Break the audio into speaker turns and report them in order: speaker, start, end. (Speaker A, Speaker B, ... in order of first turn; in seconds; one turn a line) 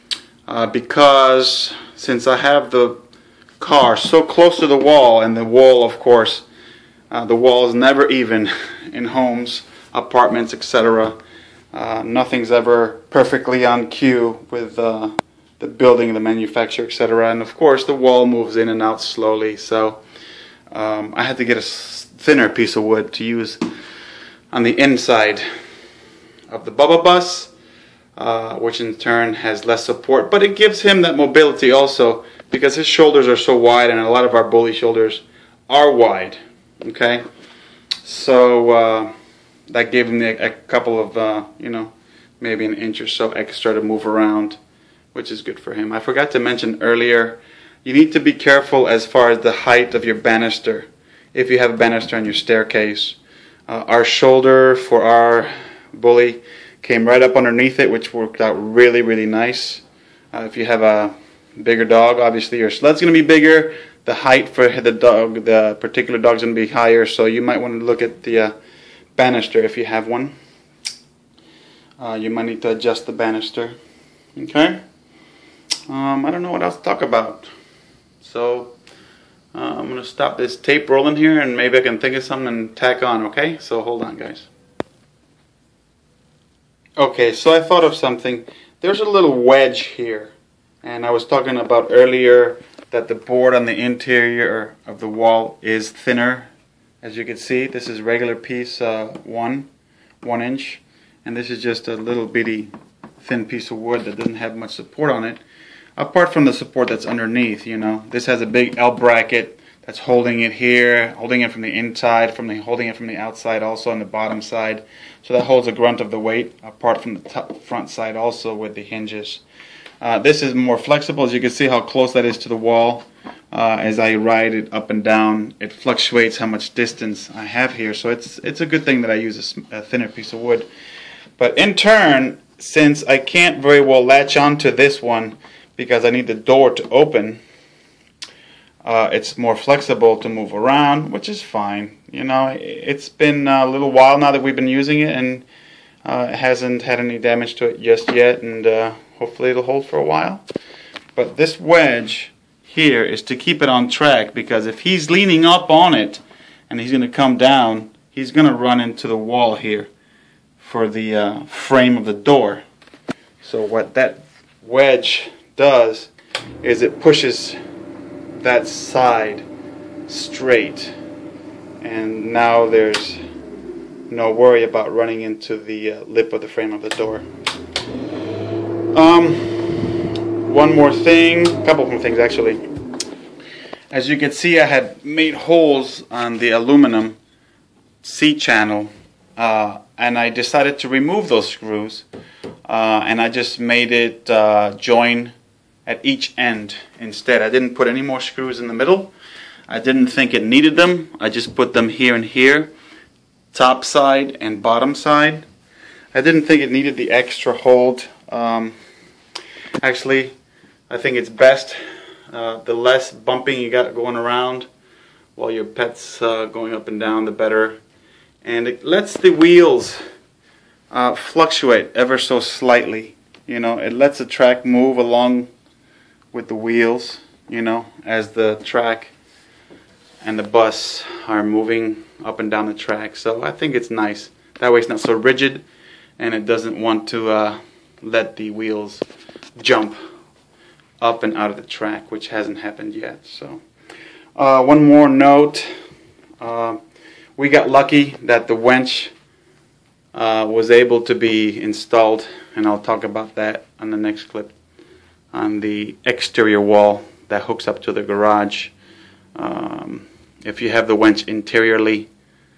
Speaker A: 0.5-3.0
Speaker A: 3.6-6.4
Speaker A: 7.1-11.2
Speaker A: 11.7-20.0
Speaker A: 20.7-23.6
Speaker A: 24.5-25.4
Speaker A: 26.5-27.5
Speaker A: 28.1-37.2
Speaker A: 38.0-39.1
Speaker A: 39.7-44.6
Speaker A: 45.1-68.5
Speaker A: 69.2-70.3
Speaker A: 72.0-73.7
Speaker A: 74.3-74.8
Speaker A: 75.9-77.5
Speaker A: 78.2-78.8
Speaker A: 79.5-84.5
Speaker A: 87.0-96.5
Speaker A: 97.0-99.7
Speaker A: 100.2-105.4
Speaker A: 106.0-119.4
Speaker A: 120.0-130.7
Speaker A: 131.4-137.4
Speaker A: 138.8-145.4
Speaker A: 146.0-150.4
Speaker A: 151.2-159.9
Speaker A: 160.6-162.6
Speaker A: 163.4-167.6
Speaker A: 168.4-169.4
Speaker A: 170.1-170.9
Speaker A: 171.8-173.2
Speaker A: 174.1-177.2
Speaker A: 178.9-182.6
Speaker A: 183.9-187.2
Speaker A: 188.0-192.0
Speaker A: 192.7-195.3
Speaker A: 195.8-199.1
Speaker A: 199.7-202.7
Speaker A: 203.5-205.4
Speaker A: 206.1-208.7
Speaker A: 209.8-210.3
Speaker A: 210.9-211.8
Speaker A: 212.3-214.7
Speaker A: 215.3-217.8
Speaker A: 218.4-220.0
Speaker A: 220.9-225.5
Speaker A: 226.3-229.1
Speaker A: 230.2-235.6
Speaker A: 236.2-239.0
Speaker A: 239.6-240.0
Speaker A: 241.0-243.6
Speaker A: 244.3-245.7
Speaker A: 246.4-246.8
Speaker A: 247.4-249.1
Speaker A: 250.1-254.5
Speaker A: 255.3-258.7
Speaker A: 259.3-262.1